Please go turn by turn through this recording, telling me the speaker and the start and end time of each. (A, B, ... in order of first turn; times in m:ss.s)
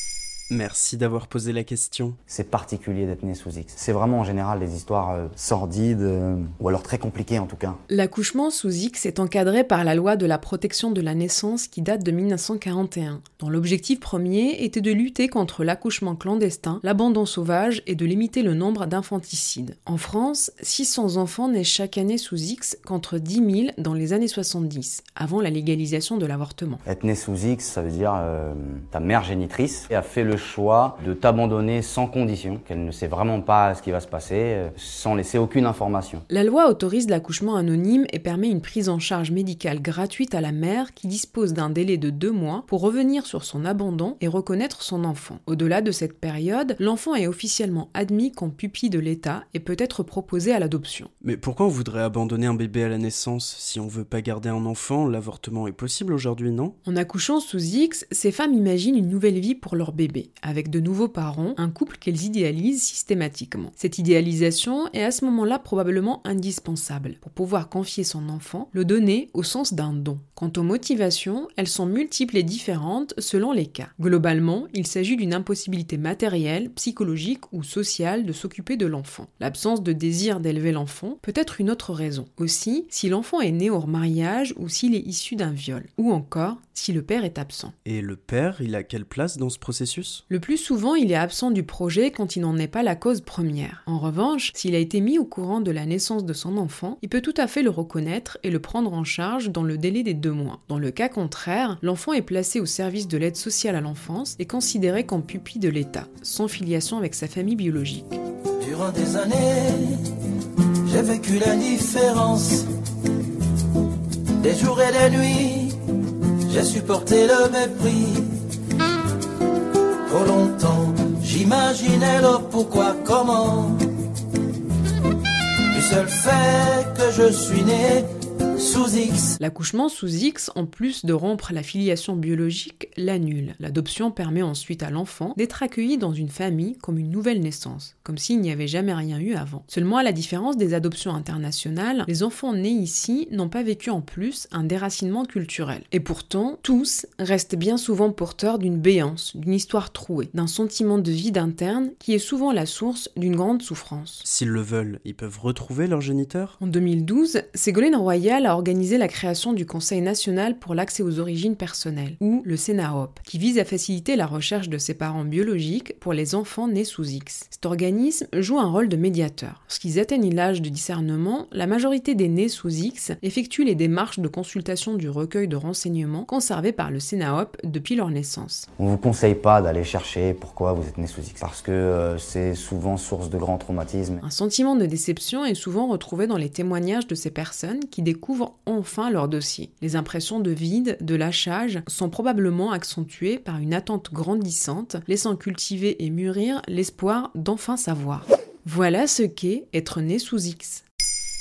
0:00.5-0:02.2 A
0:02.3-0:07.8 B
0:07.9-0:26.8 C
0:26.8-0:36.2 B
0:36.3-0:51.1 C
0:51.2-0:56.7 A
0:56.8-1:27.7 C
1:27.8-1:30.2 A
1:30.3-1:48.2 C
1:48.6-1:50.0 D
1:48.7-1:49.4 A
1:50.9-1:52.6 D
1:51.2-1:52.3 A
1:54.4-1:55.7 D
1:54.7-1:55.2 A
1:56.5-1:58.3 D
2:00.1-2:03.8 D
2:01.8-2:02.5 A
2:05.7-2:09.4 D
2:09.4-2:34.2 C
2:34.2-2:36.5 A
2:36.6-2:58.7 C
2:58.8-3:04.2 B
3:04.2-3:20.8 C